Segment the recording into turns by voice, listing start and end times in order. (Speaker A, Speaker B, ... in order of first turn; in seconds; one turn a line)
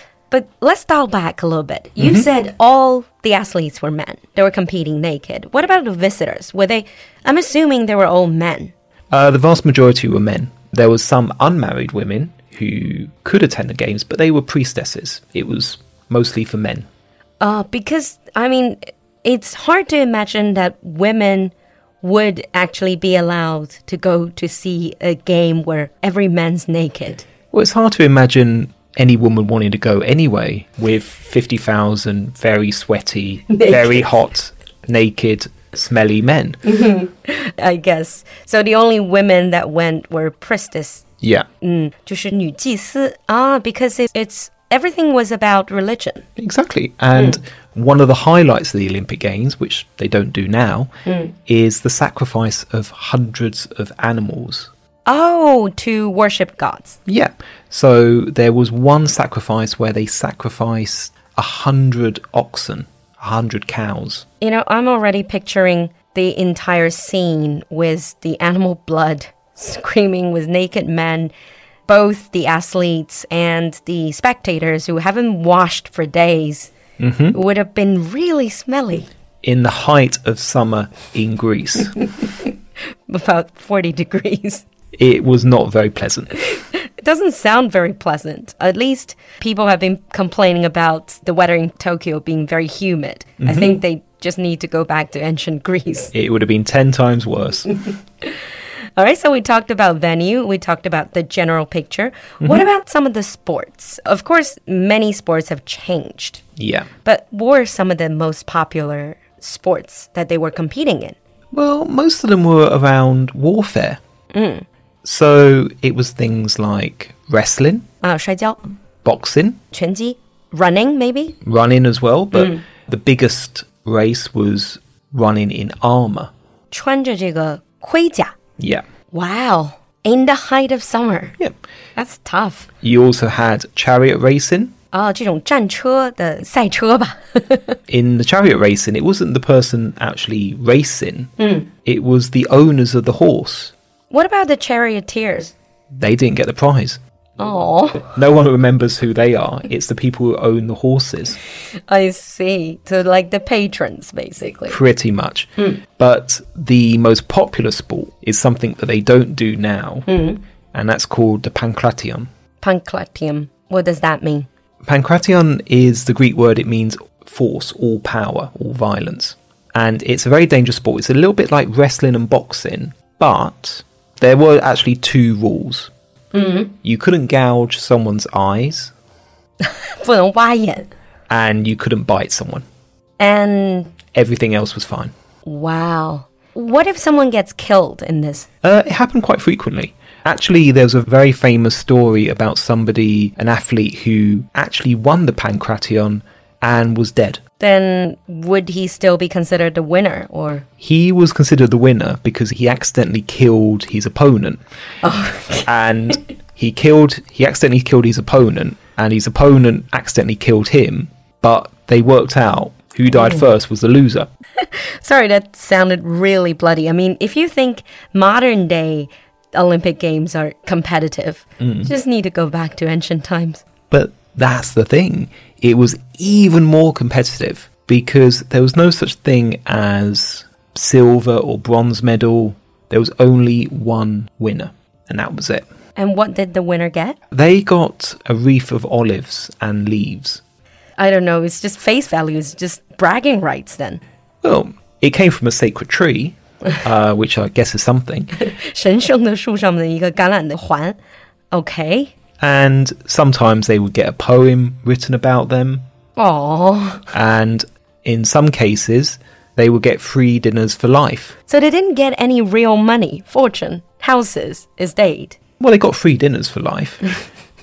Speaker A: 0.3-8.7
Speaker B: 2.0-2.3
Speaker B: 9.1-16.9
Speaker A: 17.4-27.2
Speaker B: 27.5-36.6
Speaker A: 33.5-34.0
Speaker A: 36.6-41.0
Speaker A: 41.6-46.2
Speaker B: 46.4-50.9
Speaker A: 47.1-47.4
Speaker A: 51.0-51.3
Speaker B: 51.5-54.7
Speaker A: 55.0-57.0
Speaker B: 57.1-64.2
Speaker A: 64.4-71.3
Speaker A: 71.9-76.7
Speaker B: 77.0-77.3
Speaker A: 77.3-79.1
Speaker B: 79.4-82.0
Speaker A: 82.2-82.5
Speaker A: 83.1-84.6
Speaker B: 85.0-86.3
Speaker A: 86.5-96.1
Speaker B: 93.4-93.7
Speaker B: 96.1-97.7
Speaker A: 97.7-98.4
Speaker A: 99.0-106.4
Speaker B: 106.6-106.9
Speaker A: 107.0-111.2
Speaker B: 111.5-114.0
Speaker A: 114.3-114.7
Speaker B: 115.0-117.8
Speaker A: 118.0-118.7
Speaker B: 119.0-119.6
Speaker A: 119.7-121.4
Speaker B: 121.4-126.3
Speaker A: 122.3-122.6
Speaker A: 126.7-128.3
Speaker B: 128.6-128.8
Speaker A: 129.1-131.4
Speaker A: 131.9-132.7
Speaker B: 132.8-134.7
Speaker A: 134.9-137.8
Speaker B: 137.9-141.3
Speaker A: 141.4-141.7
Speaker B: 141.8-143.7
Speaker A: 144.1-145.5
Speaker B: 145.9-147.0
Speaker A: 147.4-148.1
Speaker B: 148.0-151.4
Speaker A: 151.9-154.8
Speaker B: 154.7-160.1
Speaker A: 160.1-160.4
Speaker B: 160.7-162.3
Speaker A: 162.6-164.5
Speaker B: 164.8-175.9
Speaker A: 176.3-176.7
Speaker B: 176.8-178.9
Speaker A: 179.6-180.9
Speaker B: 181.3-182.6
Speaker A: 183.2-183.9
Speaker B: 184.1-185.1
Speaker A: 185.4-188.5
Speaker B: 188.6-197.4
Speaker A: 197.6-200.7
Speaker B: 200.8-204.6
Speaker A: 205.0-205.7
Speaker B: 205.7-214.3
Speaker A: 213.1-213.4
Speaker A: 214.6-223.6
Speaker B: 221.6-221.9
Speaker B: 223.9-235.6
Speaker A: 235.9-237.2
Speaker B: 237.3-240.4
Speaker A: 241.0-244.0
Speaker B: 244.4-248.4
Speaker A: 248.4-251.0
Speaker A: 251.5-252.1
Speaker B: 252.4-255.8
Speaker A: 256.1-257.0
Speaker B: 257.1-261.3
Speaker A: 261.5-265.4
Speaker B: 265.6-267.1